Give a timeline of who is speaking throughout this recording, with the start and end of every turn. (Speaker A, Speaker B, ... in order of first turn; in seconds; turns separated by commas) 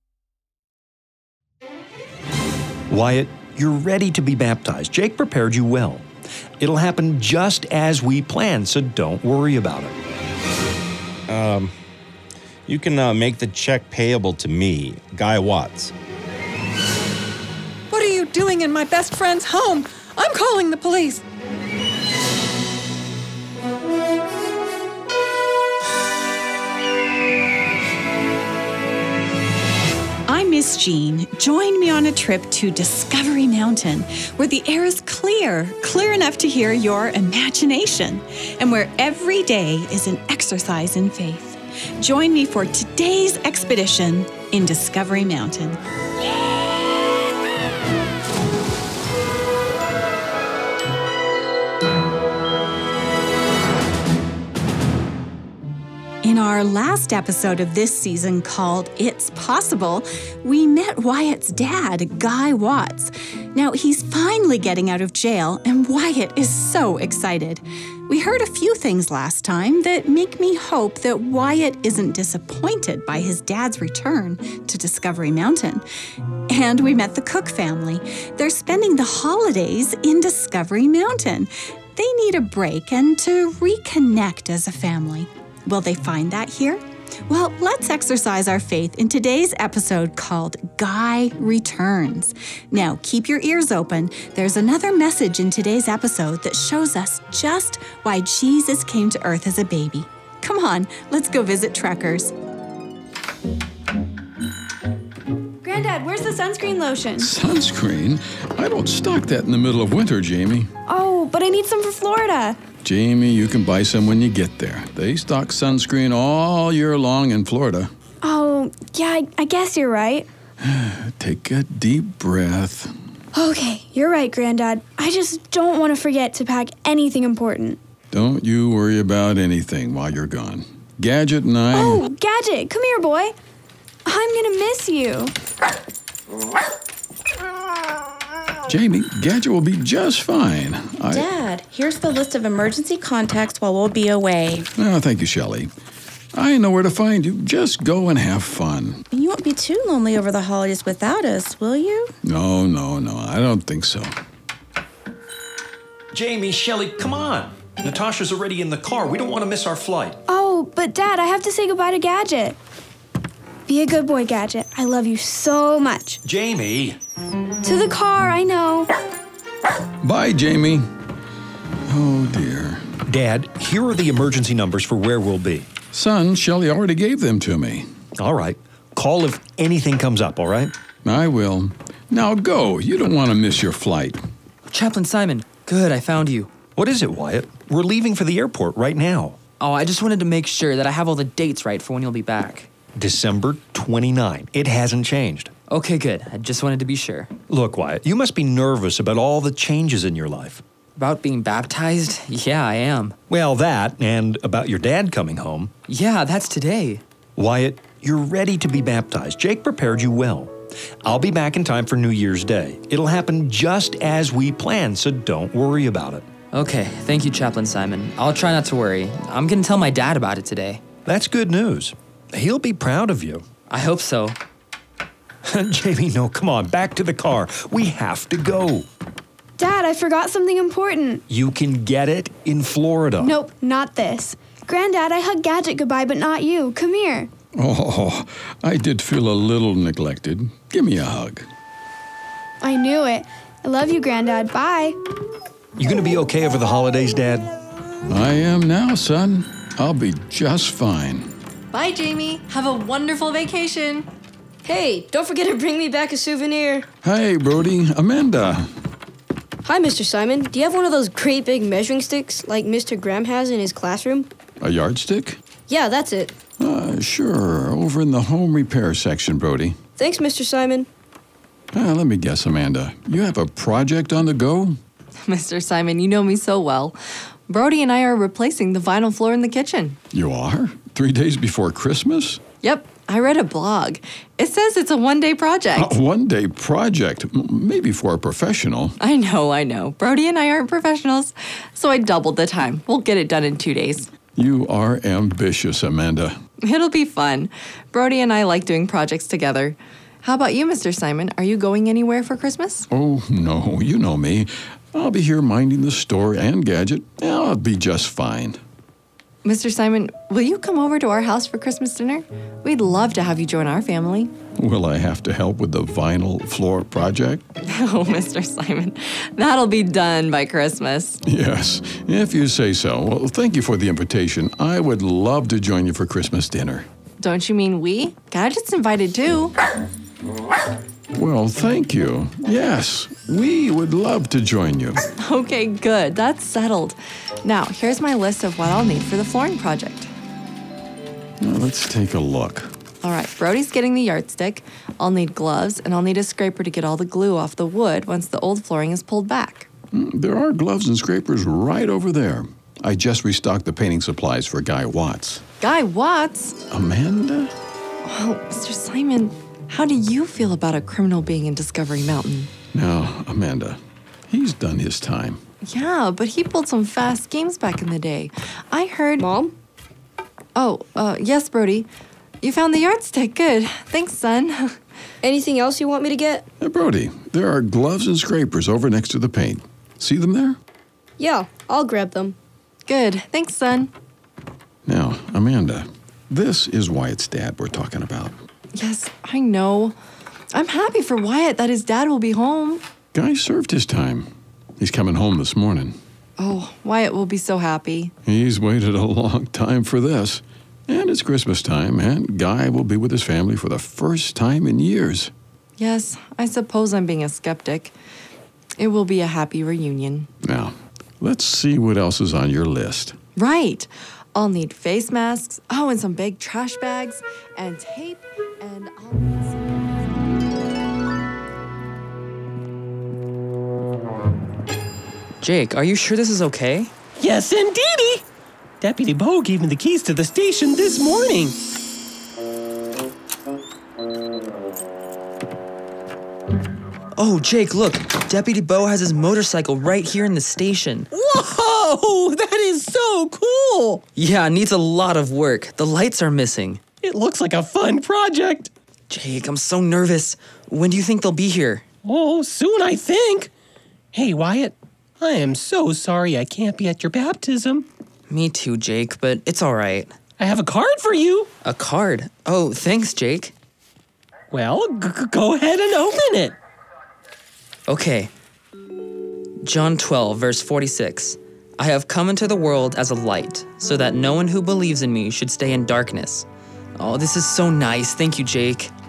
Speaker A: 2.9-6.1, Speaker A: 6.6-10.0, Speaker B: 11.3-11.7, Speaker B: 12.7-15.9, Speaker C: 17.9-21.2, Speaker D: 30.3-45.8, Speaker D: 56.2-75.8, Speaker D: 76.5-102.3, Speaker E: 105.6-107.3, Speaker F: 107.2-110.7, Speaker E: 110.9-112.6, Speaker F: 112.8-117.9, Speaker E: 118.2-120.3, Speaker F: 120.6-122.9, Speaker E: 123.3-127.8, Speaker F: 128.1-132.1, Speaker E: 131.7-133.3, Speaker E: 134.1-135.3, Speaker F: 138.7-141.3, Speaker G: 141.1-144.7, Speaker F: 144.8-145.7, Speaker F: 146.3-149.0, Speaker G: 149.1-152.1, Speaker F: 152.2-154.1, Speaker A: 156.1-160.2, Speaker E: 160.3-162.6, Speaker E: 163.7-166.2, Speaker A: 166.2-167.0, Speaker E: 167.6-168.9, Speaker F: 170.0-170.9, Speaker F: 171.9-172.9, Speaker A: 173.1-175.7, Speaker F: 175.9-177.9, Speaker A: 178.2-180.7, Speaker F: 181.0-184.2, Speaker H: 184.7-186.5, Speaker A: 186.7-189.4, Speaker H: 189.6-192.7, Speaker A: 192.9-195.5, Speaker H: 195.7-197.3, Speaker A: 197.5-200.6, Speaker H: 201.0-203.2, Speaker A: 203.3-205.7, Speaker H: 205.9-207.0, Speaker A: 207.3-216.3, Speaker H: 216.5-220.8, Speaker A: 221.0-223.5, Speaker H: 223.7-224.4, Speaker A: 225.5-228.9, Speaker E: 229.6-231.2, Speaker A: 231.3-233.3, Speaker E: 233.2-237.3, Speaker F: 237.6-241.5, Speaker E: 242.6-245.0, Speaker A: 245.8-247.5, Speaker F: 248.1-251.3, Speaker I: 251.7-254.0, Speaker J: 254.6-256.9, Speaker F: 257.0-258.7, Speaker J: 259.6-264.3, Speaker F: 264.6-265.4, Speaker J: 265.7-266.4, Speaker F: 266.6-269.8, Speaker J: 270.0-270.9, Speaker F: 271.7-274.8, Speaker I: 275.2-277.0, Speaker I: 277.5-280.0, Speaker F: 280.1-282.4, Speaker I: 282.6-286.0, Speaker F: 285.8-289.0, Speaker I: 289.0-294.1, Speaker F: 294.4-296.4, Speaker I: 296.6-302.9, Speaker F: 302.9-308.6, Speaker I: 309.4-314.3, Speaker F: 314.6-317.4, Speaker I: 317.6-321.2, Speaker F: 321.2-326.9, Speaker I: 327.2-329.6, Speaker F: 331.1-335.0, Speaker I: 335.2-340.1, Speaker F: 341.4-342.7, Speaker I: 343.0-349.7, Speaker F: 349.9-355.4, Speaker I: 355.6-356.6, Speaker F: 356.7-357.5, Speaker I: 358.0-362.5, Speaker F: 362.7-365.4, Speaker I: 365.6-369.2, Speaker J: 369.2-369.5, Speaker I: 370.5-371.9, Speaker I: 372.4-374.8, Speaker J: 375.2-376.4, Speaker F: 376.6-380.6, Speaker J: 381.2-382.4, Speaker I: 382.9-383.9, Speaker F: 384.9-388.4, Speaker I: 388.8-390.0, Speaker I: 390.5-392.8, Speaker F: 393.1-396.0, Speaker I: 396.4-398.1, Speaker F: 398.2-405.3, Speaker I: 405.8-407.9, Speaker I: 408.8-410.3, Speaker F: 410.4-413.1, Speaker I: 413.4-419.9, Speaker H: 425.4-426.9, Speaker K: 427.2-428.2, Speaker K: 428.8-431.6, Speaker H: 437.1-441.1, Speaker K: 441.1-444.0, Speaker H: 444.1-446.8, Speaker K: 447.0-448.7, Speaker H: 449.1-451.8, Speaker K: 452.0-453.5, Speaker K: 454.1-457.9, Speaker H: 458.3-460.1, Speaker K: 460.4-461.5, Speaker H: 461.6-463.5, Speaker K: 464.5-466.6, Speaker H: 467.9-468.3, Speaker H: 469.6-476.5, Speaker H: 477.0-478.9